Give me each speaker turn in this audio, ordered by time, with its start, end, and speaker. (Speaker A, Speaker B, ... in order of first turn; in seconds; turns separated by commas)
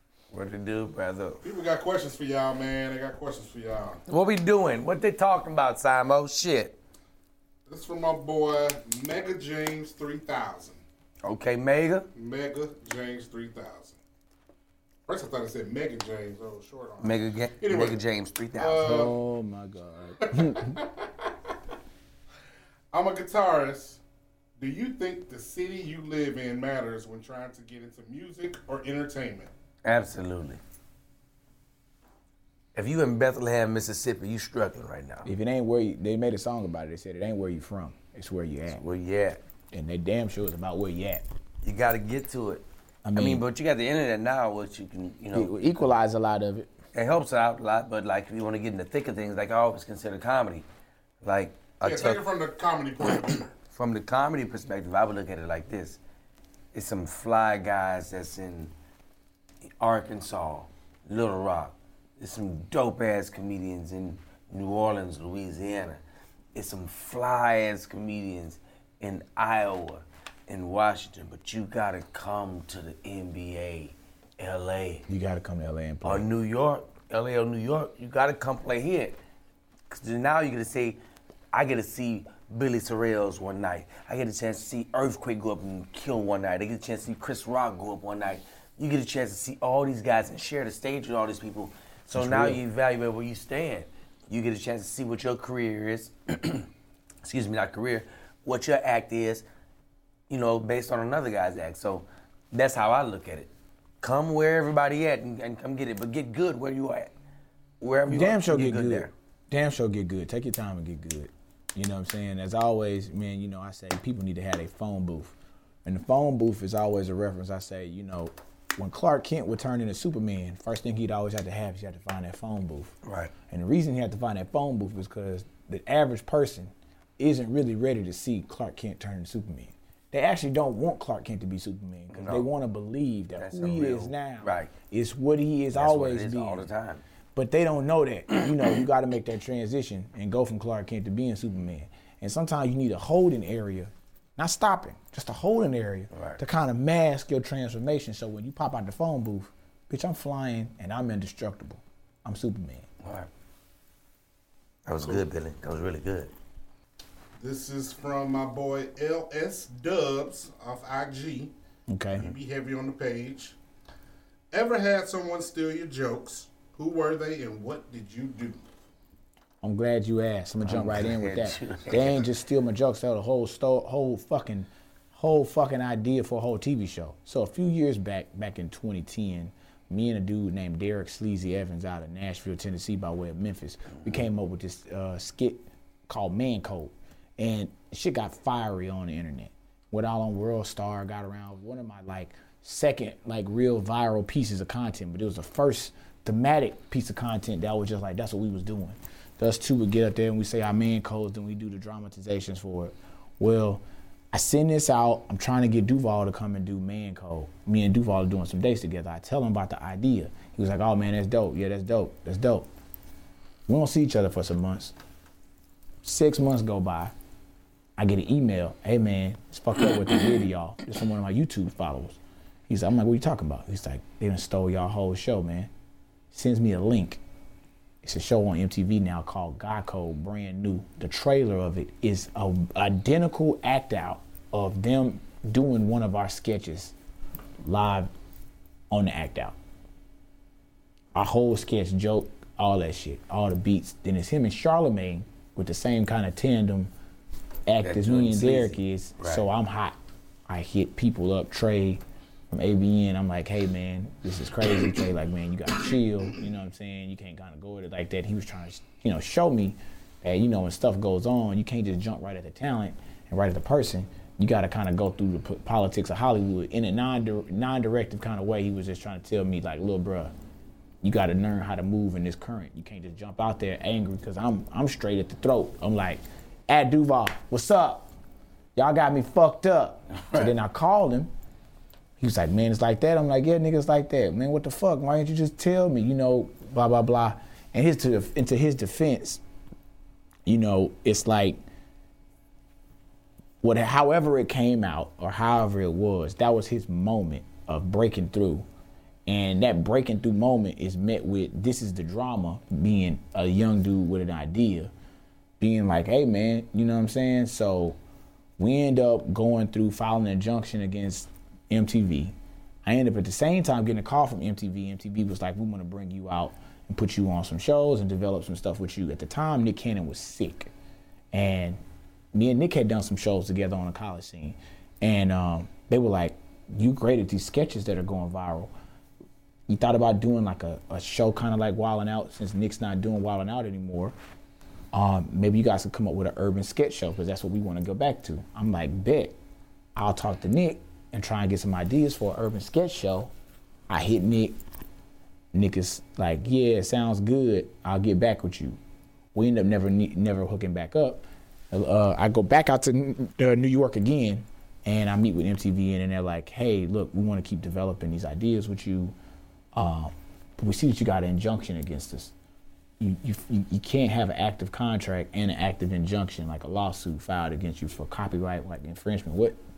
Speaker A: 0.3-1.4, Speaker B: 1.4-4.0, Speaker A: 4.1-6.8, Speaker B: 7.7-10.8, Speaker A: 11.2-12.1, Speaker B: 12.2-14.0, Speaker B: 15.1-18.0, Speaker A: 17.0-18.8, Speaker B: 18.6-19.2, Speaker C: 18.8-20.8, Speaker B: 20.2-21.1, Speaker B: 22.9-24.0, Speaker B: 24.6-29.5, Speaker A: 29.8-30.6, Speaker A: 32.8-35.3, Speaker C: 35.3-38.8, Speaker A: 38.7-39.4, Speaker C: 39.7-41.2, Speaker A: 41.6-42.6, Speaker C: 43.0-43.5, Speaker A: 43.1-45.6, Speaker C: 45.3-46.7, Speaker A: 46.9-50.7, Speaker A: 51.2-52.2, Speaker B: 51.8-53.5, Speaker A: 53.7-56.0, Speaker A: 56.7-58.7, Speaker A: 59.8-66.0, Speaker A: 66.5-75.1, Speaker C: 75.1-76.3, Speaker A: 76.0-79.2, Speaker A: 79.9-81.0, Speaker A: 81.5-96.7, Speaker C: 92.2-92.6, Speaker A: 97.2-99.5, Speaker A: 100.3-103.5, Speaker A: 104.0-107.1, Speaker A: 107.8-109.1, Speaker C: 108.1-123.0, Speaker A: 123.0-123.3, Speaker C: 123.5-136.7, Speaker A: 132.1-132.5, Speaker A: 133.4-134.7, Speaker A: 135.7-137.0, Speaker C: 137.3-152.9, Speaker A: 146.1-146.4, Speaker A: 153.0-153.3, Speaker A: 154.9-156.3, Speaker B: 157.4-161.5, Speaker C: 161.9-162.3, Speaker B: 162.2-163.6, Speaker B: 164.5-168.6, Speaker C: 169.6-212.7, Speaker A: 170.7-172.3, Speaker C: 213.7-214.9, Speaker C: 216.0-217.1, Speaker C: 218.0-225.7, Speaker C: 226.3-227.2, Speaker C: 228.0-236.9, Speaker C: 237.6-238.1, Speaker C: 238.9-239.6, Speaker C: 241.2-246.9, Speaker C: 247.7-250.0, Speaker A: 247.8-249.4, Speaker C: 250.5-270.3, Speaker C: 271.0-278.1, Speaker C: 278.8-281.3, Speaker C: 282.2-289.4, Speaker C: 290.5-291.6, Speaker C: 293.6-298.6, Speaker C: 299.3-304.9, Speaker C: 305.6-308.0, Speaker C: 308.6-320.7, Speaker C: 321.3-321.8, Speaker C: 322.3-328.7, Speaker C: 329.7-334.1, Speaker C: 334.9-339.4, Speaker C: 340.0-343.3, Speaker C: 343.9-344.6, Speaker C: 345.5-348.8, Speaker C: 349.3-359.1, Speaker C: 359.8-362.4, Speaker C: 363.0-369.6